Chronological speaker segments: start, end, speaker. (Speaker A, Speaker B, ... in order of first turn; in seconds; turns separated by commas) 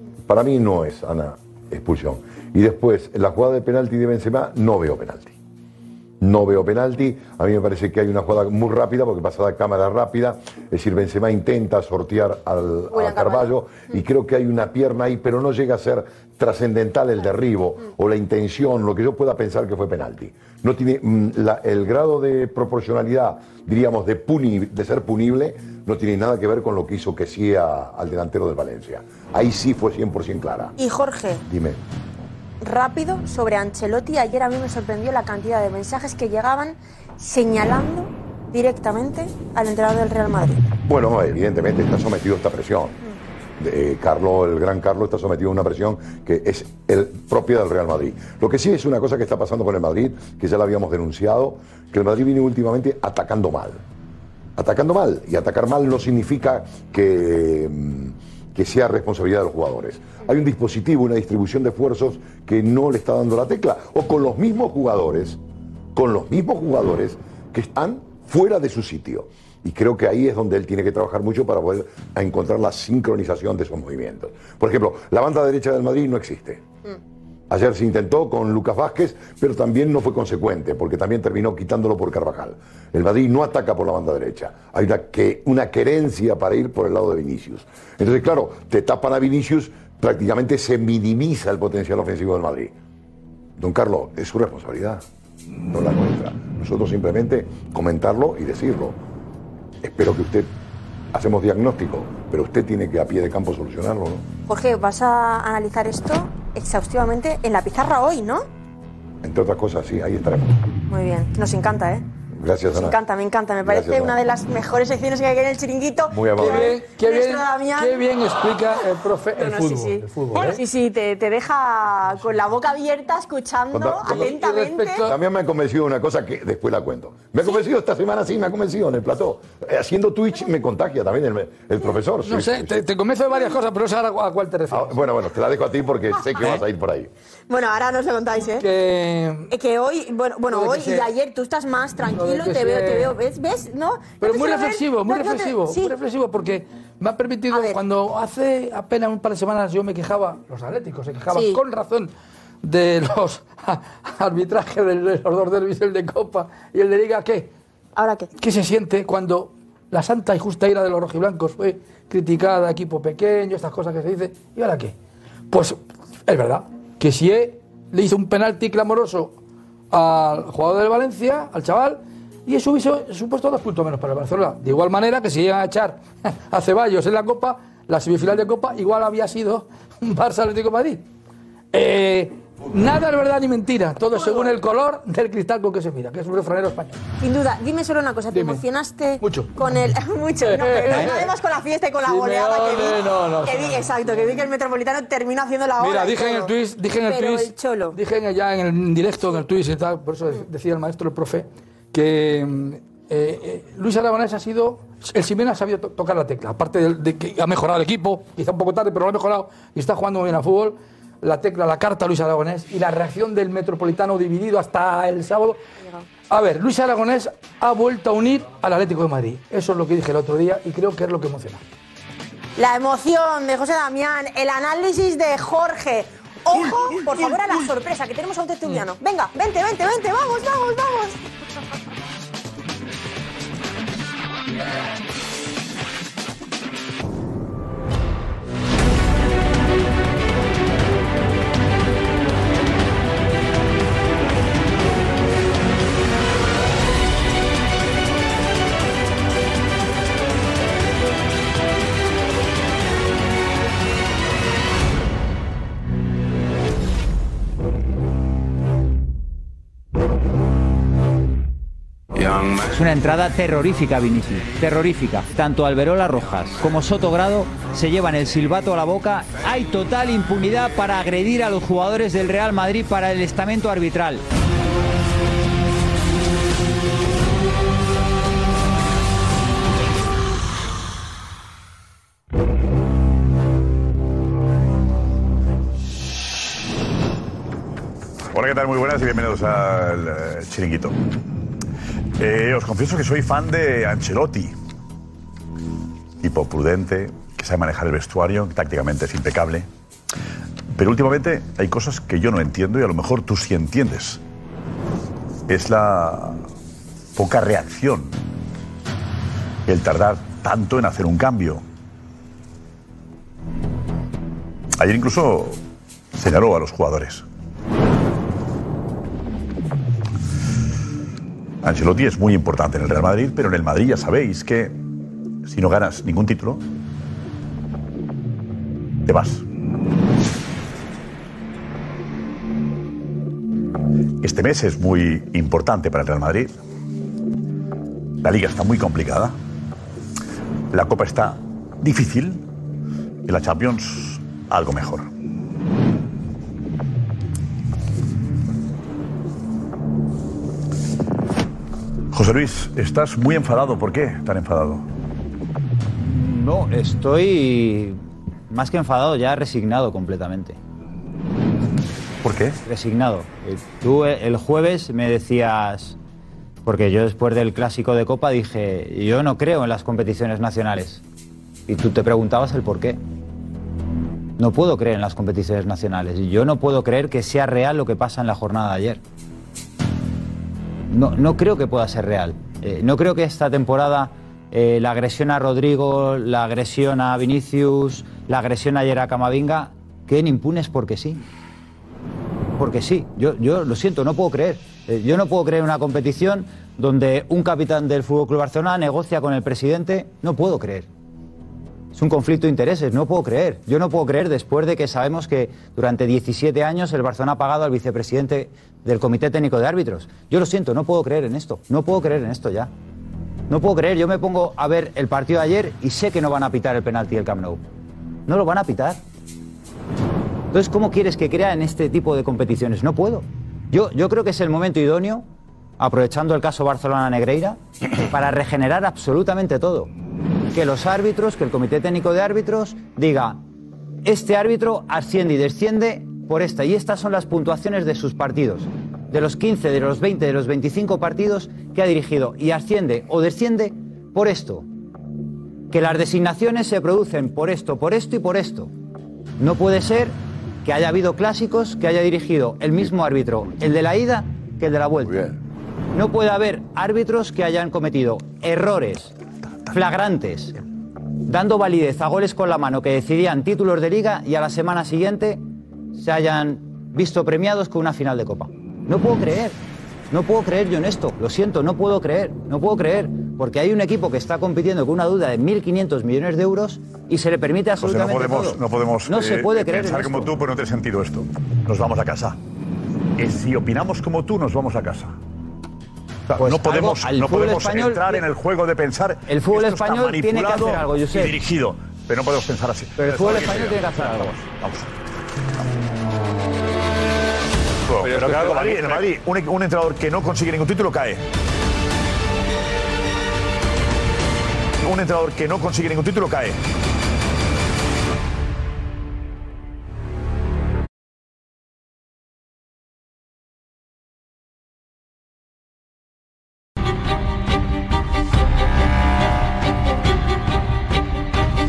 Speaker A: 0.3-5.3, Speaker A: 6.2-30.7, Speaker B: 12.9-13.9, Speaker B: 30.8-31.4, Speaker A: 31.4-31.8, Speaker B: 32.6-40.7, Speaker A: 40.9-43.0, Speaker A: 43.6-53.8, Speaker A: 54.6-65.4, Speaker A: 65.9-76.6, Speaker A: 77.5-92.7, Speaker A: 93.6-95.0, Speaker A: 95.7-99.0, Speaker A: 99.8-100.5, Speaker A: 101.1-104.2, Speaker B: 104.5-108.4, Speaker A: 109.2-110.6, Speaker B: 110.9-112.0, Speaker A: 112.3-113.0, Speaker B: 112.7-118.1, Speaker A: 113.6-114.2, Speaker A: 116.1-116.7, Speaker C: 116.3-120.6, Speaker B: 118.7-125.1, Speaker A: 123.7-124.3, Speaker C: 124.0-125.2, Speaker A: 125.0-132.8, Speaker C: 132.2-135.0, Speaker A: 134.7-137.1, Speaker B: 137.5-138.7, Speaker C: 138.6-139.5, Speaker B: 139.5-145.9, Speaker C: 140.5-141.1, Speaker C: 142.1-143.1, Speaker C: 144.2-152.1, Speaker B: 147.5-147.8, Speaker B: 151.3-151.6, Speaker C: 152.6-157.5, Speaker B: 157.9-158.3, Speaker C: 158.4-164.9, Speaker C: 165.5-169.4, Speaker C: 169.9-181.0, Speaker C: 181.7-187.0, Speaker B: 184.1-184.5, Speaker B: 187.2-198.0, Speaker C: 188.3-188.6, Speaker C: 189.2-189.5, Speaker C: 190.4-191.3, Speaker C: 192.0-194.1, Speaker C: 195.8-215.6, Speaker C: 216.3-221.6, Speaker B: 222.6-231.2, Speaker D: 262.6-274.2, Speaker E: 288.3-290.9, Speaker E: 292.2-294.5, Speaker E: 296.2-299.7, Speaker E: 300.7-304.2, Speaker E: 305.5-306.4, Speaker E: 307.1-308.2, Speaker E: 309.6-311.6, Speaker E: 314.8-315.6, Speaker E: 316.1-317.2, Speaker E: 321.6-324.8, Speaker E: 325.4-326.6, Speaker E: 329.1-329.4, Speaker E: 334.2-336.6, Speaker E: 338.2-339.4, Speaker E: 340.7-342.4, Speaker E: 343.2-345.1, Speaker E: 352.1-354.8, Speaker D: 356.0-360.6, Speaker E: 362.2-362.6, Speaker D: 362.6-366.0, Speaker D: 366.6-371.0, Speaker D: 371.7-373.0, Speaker D: 374.4-379.0, Speaker D: 380.9-391.2, Speaker D: 392.6-400.9, Speaker D: 401.9-412.7, Speaker D: 413.5-417.6, Speaker D: 418.3-419.0, Speaker D: 420.5-425.3, Speaker D: 425.8-429.9, Speaker D: 430.5-433.4, Speaker D: 434.0-444.6, Speaker D: 445.7-448.7, Speaker D: 449.4-455.2, Speaker A: 455.1-455.3, Speaker D: 455.9-459.1, Speaker D: 459.7-460.6, Speaker D: 461.2-469.6, Speaker D: 470.1-480.3, Speaker E: 477.8-482.4, Speaker E: 483.2-485.1, Speaker E: 486.3-494.9, Speaker D: 486.4-488.2, Speaker D: 489.3-491.4, Speaker D: 493.0-494.3, Speaker E: 497.9-501.2, Speaker E: 504.8-506.6